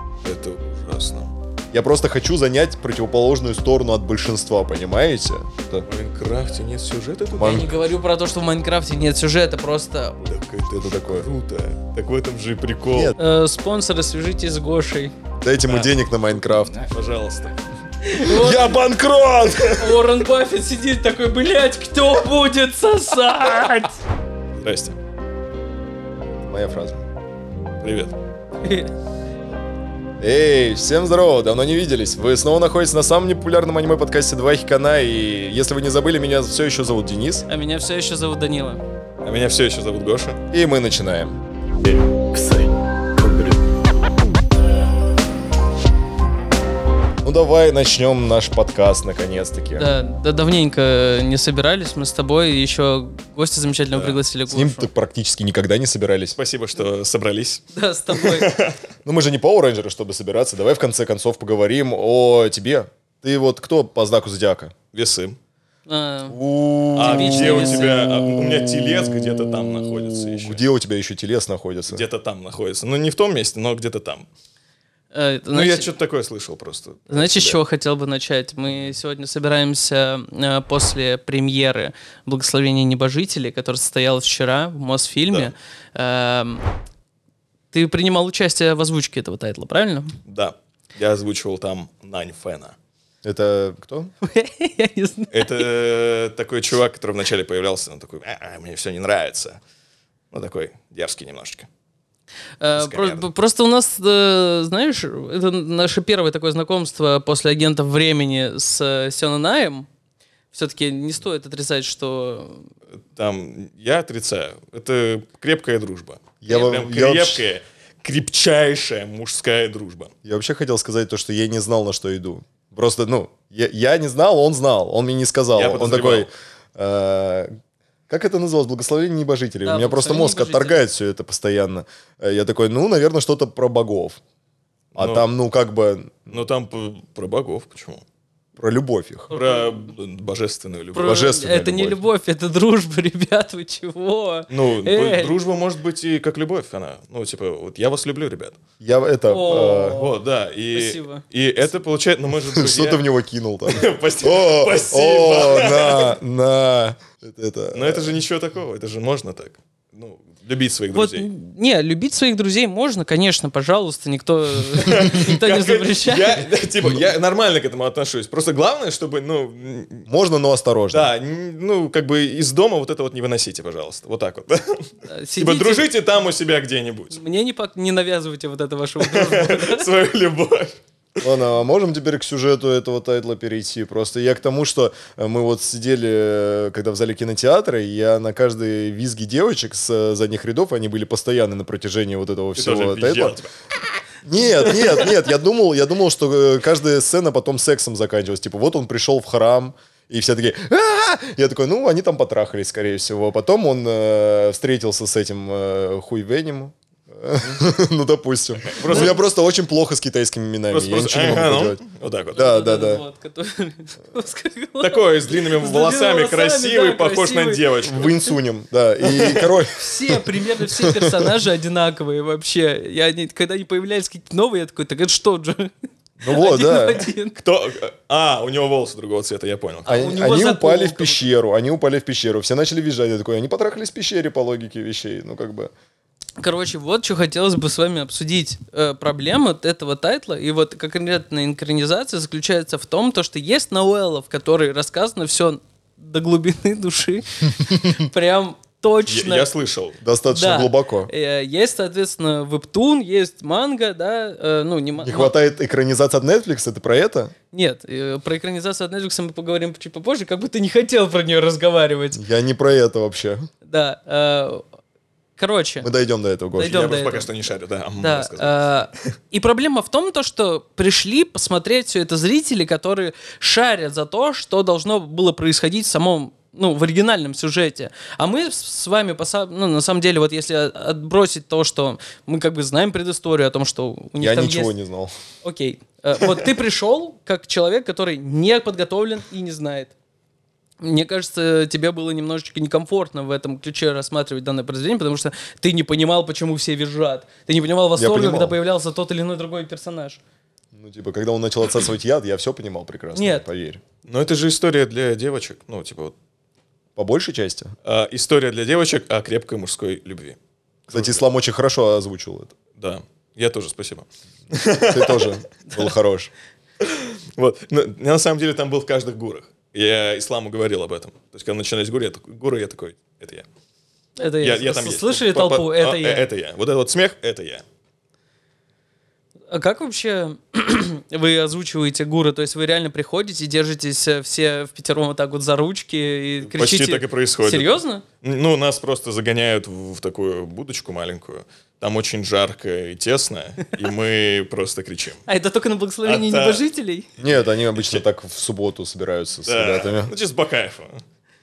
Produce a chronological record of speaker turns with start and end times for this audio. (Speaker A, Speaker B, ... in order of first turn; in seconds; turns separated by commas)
Speaker A: 0.2-1.3, Speaker B: 1.7-5.8, Speaker A: 5.8-7.8, Speaker B: 7.3-7.7, Speaker C: 7.4-10.2, Speaker A: 10.2-13.1, Speaker B: 10.7-11.3, Speaker C: 13.2-15.1, Speaker B: 15.4-16.9, Speaker A: 15.7-17.6, Speaker C: 18.0-18.7, Speaker B: 18.2-19.8, Speaker C: 19.8-24.0, Speaker A: 24.6-24.9, Speaker B: 26.4-27.0, Speaker A: 27.8-28.1, Speaker C: 28.6-28.9, Speaker B: 30.2-37.5, Speaker C: 37.5-38.8, Speaker A: 39.2-40.4, Speaker B: 40.5-41.4, Speaker B: 47.2-49.9, Speaker C: 49.8-54.9, Speaker A: 53.9-54.2, Speaker B: 54.5-56.4, Speaker A: 56.3-58.8, Speaker C: 57.7-58.5, Speaker B: 59.0-64.7, Speaker A: 64.9-65.4, Speaker C: 65.9-66.4, Speaker B: 66.3-68.5, Speaker C: 66.9-68.1, Speaker A: 66.9-70.6, Speaker B: 70.2-72.0, Speaker A: 71.9-74.3, Speaker C: 75.1-75.9, Speaker A: 75.5-77.6, Speaker C: 77.1-86.7, Speaker C: 87.7-90.1, Speaker A: 90.2-92.7, Speaker B: 93.2-94.1, Speaker C: 94.2-95.7, Speaker A: 95.3-99.6, Speaker A: 100.3-101.7, Speaker C: 102.6-109.9, Speaker A: 102.7-103.3, Speaker C: 110.5-112.7, Speaker A: 113.1-120.1, Speaker B: 116.4-117.4, Speaker B: 120.2-127.5, Speaker A: 125.5-126.3, Speaker B: 128.1-134.2, Speaker C: 129.6-130.8, Speaker A: 134.9-135.3, Speaker B: 134.9-136.4, Speaker A: 136.3-138.0, Speaker B: 138.6-139.3, Speaker C: 139.3-139.9, Speaker A: 139.3-141.2, Speaker C: 140.9-145.4, Speaker B: 141.0-142.0, Speaker A: 144.5-148.6, Speaker B: 148.8-150.0, Speaker C: 149.3-150.2, Speaker A: 149.9-153.0, Speaker C: 150.7-151.2, Speaker B: 152.5-158.1, Speaker A: 153.7-156.2, Speaker A: 157.7-161.3, Speaker C: 160.9-166.4, Speaker A: 164.8-170.1, Speaker B: 170.1-171.1, Speaker A: 170.9-177.2, Speaker C: 175.1-175.9, Speaker C: 177.1-179.9, Speaker A: 179.0-180.8, Speaker B: 181.2-193.4, Speaker A: 192.6-193.5, Speaker B: 194.2-211.8, Speaker A: 208.6-209.3, Speaker C: 208.8-209.1, Speaker A: 210.7-212.4, Speaker B: 212.3-213.0, Speaker C: 212.3-217.7, Speaker A: 214.8-218.2, Speaker B: 217.8-221.3, Speaker A: 219.0-219.6, Speaker C: 219.8-225.7, Speaker B: 226.2-227.1, Speaker C: 226.2-227.4, Speaker A: 227.4-230.1, Speaker C: 229.8-231.3, Speaker B: 229.9-235.7, Speaker C: 236.4-249.5, Speaker B: 247.6-248.0, Speaker A: 249.1-250.0, Speaker B: 250.0-251.1, Speaker C: 250.3-255.3, Speaker B: 255.0-257.3, Speaker C: 257.5-262.2, Speaker B: 262.1-263.5, Speaker C: 263.6-264.6, Speaker C: 265.4-265.9, Speaker B: 265.8-266.8, Speaker C: 266.5-267.3, Speaker A: 266.6-268.6, Speaker C: 268.0-284.7, Speaker B: 284.2-285.1, Speaker C: 285.4-289.9, Speaker C: 290.8-300.2, Speaker B: 297.9-298.6, Speaker B: 300.7-303.8, Speaker C: 303.1-303.4, Speaker A: 304.0-306.1, Speaker B: 306.9-307.7, Speaker A: 307.8-310.4, Speaker A: 310.9-311.2, Speaker B: 310.9-312.5, Speaker A: 312.8-315.4, Speaker B: 314.9-316.3, Speaker A: 316.8-323.4, Speaker C: 324.2-326.2, Speaker A: 324.4-327.6, Speaker C: 329.5-338.0, Speaker A: 336.4-345.2, Speaker C: 345.2-347.1, Speaker A: 346.0-346.6, Speaker B: 347.2-350.1, Speaker A: 347.2-348.0, Speaker A: 349.4-351.0